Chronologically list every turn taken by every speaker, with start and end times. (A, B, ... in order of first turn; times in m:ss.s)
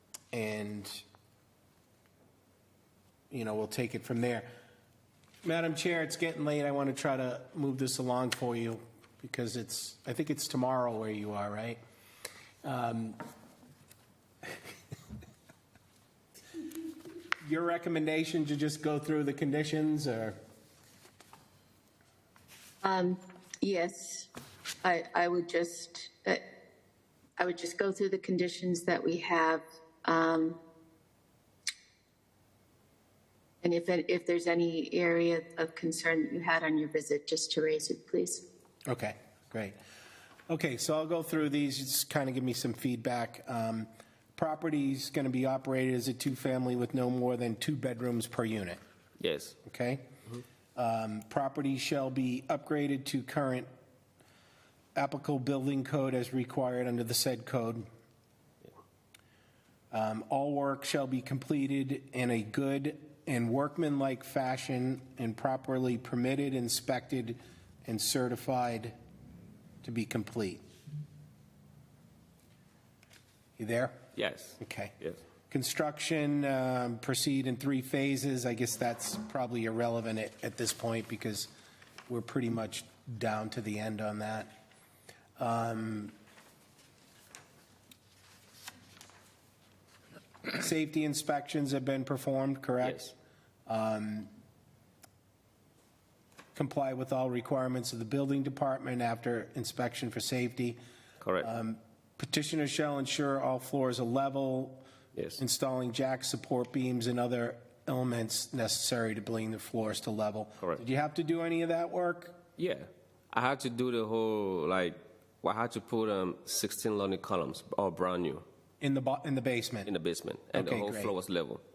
0:00.3-0:01.0 A
0:03.3-0:04.5 A
0:05.4-0:11.8 A
0:12.6-0:13.2 A
0:17.4-0:20.4 A
0:22.8-0:24.3 B
0:24.8-0:26.4 B
0:27.4-0:30.6 B
0:33.6-0:38.4 B
0:38.9-0:39.8 A
0:40.5-0:48.8 A
0:49.2-0:49.6 C
0:49.6-0:50.1 A
0:50.8-0:53.7 A
0:55.0-0:57.8 A
0:59.9-1:08.9 A
1:09.8-1:10.6 A
1:13.6-1:14.0 A
1:14.1-1:15.2 C
1:14.6-1:14.9 A
1:15.5-1:21.5 A
1:22.1-1:24.5 A
1:25.4-1:26.1 A
1:30.5-1:33.1 A
1:32.8-1:33.1 C
1:33.7-1:34.3 A
1:36.5-1:40.8 A
1:41.2-1:41.5 C
1:41.4-1:44.8 A
1:45.1-1:45.4 C
1:45.4-1:52.4 A
1:52.6-1:58.4 C
1:58.8-1:59.9 A
1:59.8-2:01.6 C
2:00.5-2:01.1 A